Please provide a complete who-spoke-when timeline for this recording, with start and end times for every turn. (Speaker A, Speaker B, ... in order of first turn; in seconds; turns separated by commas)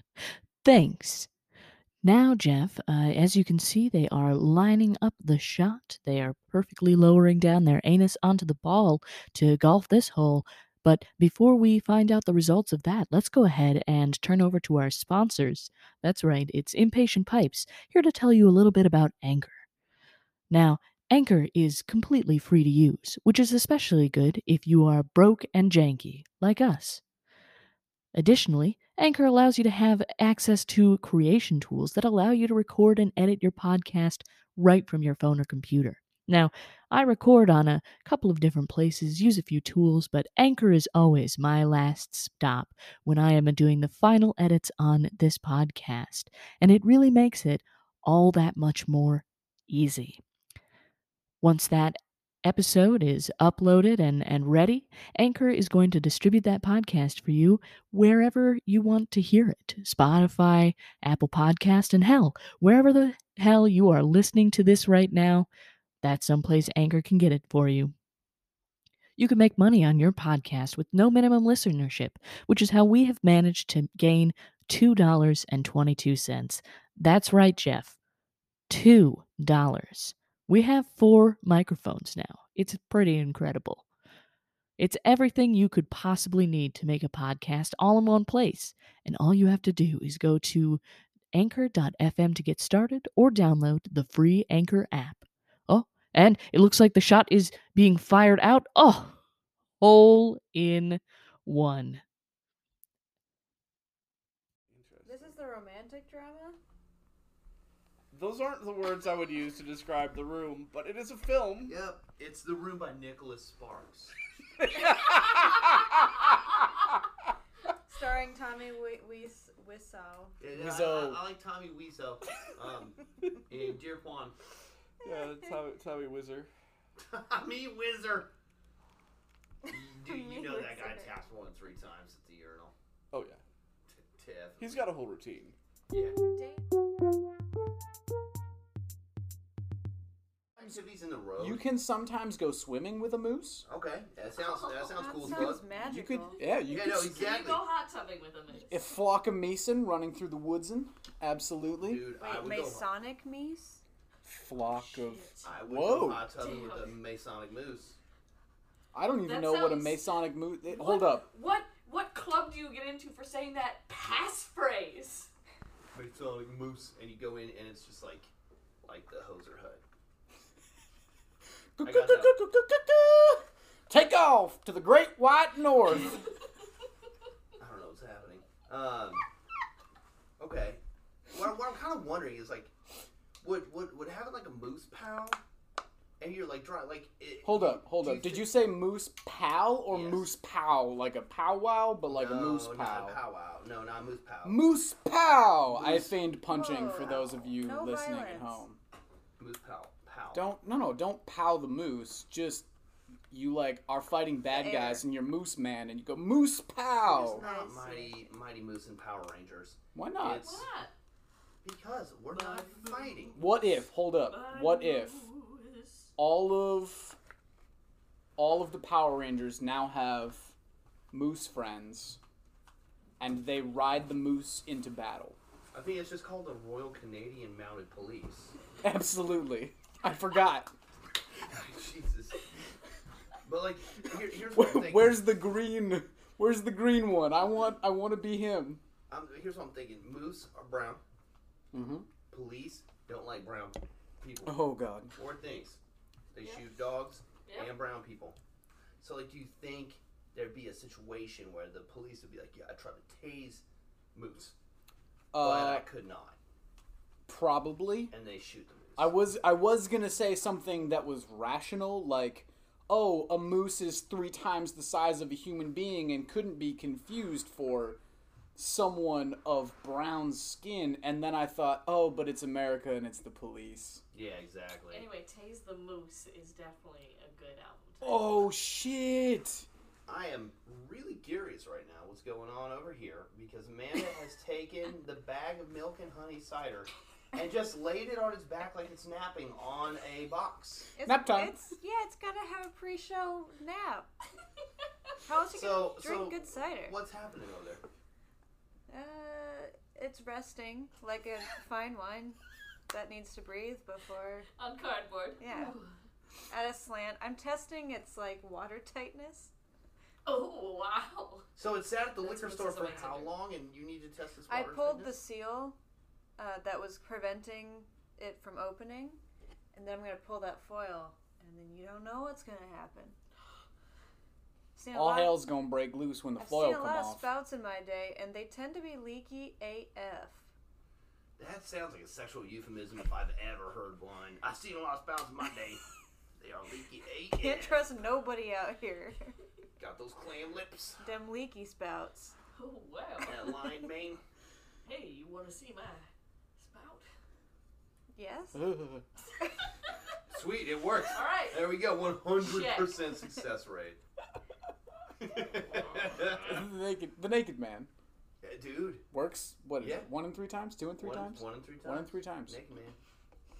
Speaker A: 0.6-1.3, Speaker A: 2.0-19.6, Speaker A: 20.5-27.0, Speaker A: 28.1-50.2, Speaker A: 51.4-65.5, Speaker A: 66.0-67.9, Speaker A: 69.2-78.0, Speaker A: 78.7-83.9, Speaker A: 84.8-90.8, Speaker A: 91.3-99.2, Speaker A: 99.8-102.0, Speaker B: 104.7-105.4, Speaker C: 105.0-106.6, Speaker B: 108.1-111.8, Speaker D: 111.7-114.1, Speaker C: 117.9-120.4, Speaker D: 120.4-124.4, Speaker E: 120.5-121.2, Speaker B: 125.0-126.5, Speaker C: 125.0-125.6, Speaker D: 127.0-128.3, Speaker C: 129.7-131.1, Speaker D: 129.7-132.7, Speaker B: 133.1-133.4, Speaker D: 134.0-134.9, Speaker B: 134.6-135.6, Speaker D: 135.9-136.2, Speaker C: 136.2-136.7, Speaker D: 140.6-141.6, Speaker E: 141.4-143.7, Speaker D: 143.7-145.6, Speaker F: 144.4-145.1, Speaker C: 145.0-146.4, Speaker E: 145.3-147.1, Speaker F: 146.4-148.8, Speaker D: 146.7-147.6, Speaker E: 148.7-152.1, Speaker D: 151.8-152.9, Speaker C: 152.2-153.8, Speaker E: 154.2-156.3, Speaker F: 154.6-155.4, Speaker D: 155.4-158.0, Speaker F: 156.4-157.0, Speaker E: 158.9-161.3, Speaker F: 159.2-160.0, Speaker F: 160.6-165.3, Speaker D: 165.9-168.3, Speaker D: 168.8-169.8, Speaker E: 171.8-176.2, Speaker D: 171.8-172.3, Speaker D: 177.6-179.2, Speaker D: 180.4-182.7, Speaker D: 183.4-185.4, Speaker D: 186.2-188.6, Speaker E: 187.4-193.2, Speaker D: 189.9-190.3, Speaker D: 192.1-194.6, Speaker E: 194.4-198.8, Speaker D: 195.7-196.2, Speaker C: 196.5-198.6, Speaker D: 199.4-200.5, Speaker E: 200.3-202.7, Speaker E: 203.3-207.4, Speaker C: 204.5-205.1, Speaker D: 207.0-210.7, Speaker C: 207.3-208.3, Speaker E: 209.9-210.6, Speaker F: 210.4-210.9, Speaker D: 211.6-213.4, Speaker F: 212.3-213.5, Speaker E: 213.4-215.3, Speaker F: 214.2-216.1, Speaker E: 216.2-217.2, Speaker E: 218.4-220.5, Speaker E: 221.1-222.2, Speaker E: 223.2-225.4, Speaker D: 225.7-228.6, Speaker E: 228.8-230.7, Speaker D: 231.5-232.4, Speaker D: 233.4-235.2, Speaker E: 234.3-238.8, Speaker D: 239.1-241.0, Speaker E: 241.7-242.1, Speaker D: 242.3-244.6, Speaker E: 244.4-245.2, Speaker D: 245.1-245.8, Speaker D: 246.3-248.4, Speaker F: 246.4-246.7, Speaker F: 247.4-247.7, Speaker D: 249.0-253.6, Speaker D: 254.1-254.6, Speaker E: 255.3-255.9, Speaker D: 255.4-256.4, Speaker E: 257.3-258.1, Speaker D: 258.1-259.1, Speaker E: 259.0-268.0, Speaker E: 268.6-274.0, Speaker D: 274.1-275.1, Speaker F: 274.9-278.2, Speaker E: 278.0-279.7, Speaker D: 280.1-290.9, Speaker C: 291.0-294.1, Speaker E: 291.1-291.6, Speaker C: 295.2-296.9, Speaker D: 295.5-297.8, Speaker C: 298.9-302.4, Speaker C: 302.9-304.5, Speaker F: 304.6-306.0, Speaker C: 305.4-305.8, Speaker C: 306.5-309.5, Speaker F: 310.2-311.5, Speaker D: 311.6-315.2, Speaker F: 312.2-313.4, Speaker C: 314.5-315.8, Speaker C: 316.4-319.2, Speaker C: 319.7-323.2, Speaker C: 324.8-325.4, Speaker E: 324.9-327.3, Speaker C: 326.4-330.5, Speaker D: 331.4-335.8, Speaker D: 336.4-337.9, Speaker C: 337.3-339.4, Speaker D: 339.8-341.0, Speaker C: 341.0-342.4, Speaker F: 342.6-343.5, Speaker D: 343.2-344.2, Speaker F: 344.9-347.1, Speaker C: 348.1-348.7, Speaker E: 348.5-349.0, Speaker D: 350.3-354.0, Speaker F: 351.0-351.8, Speaker F: 352.4-353.0, Speaker D: 355.2-356.7, Speaker F: 355.7-356.2, Speaker E: 356.3-357.9, Speaker D: 358.4-359.0, Speaker E: 359.1-362.6, Speaker D: 359.8-360.1, Speaker D: 361.0-363.0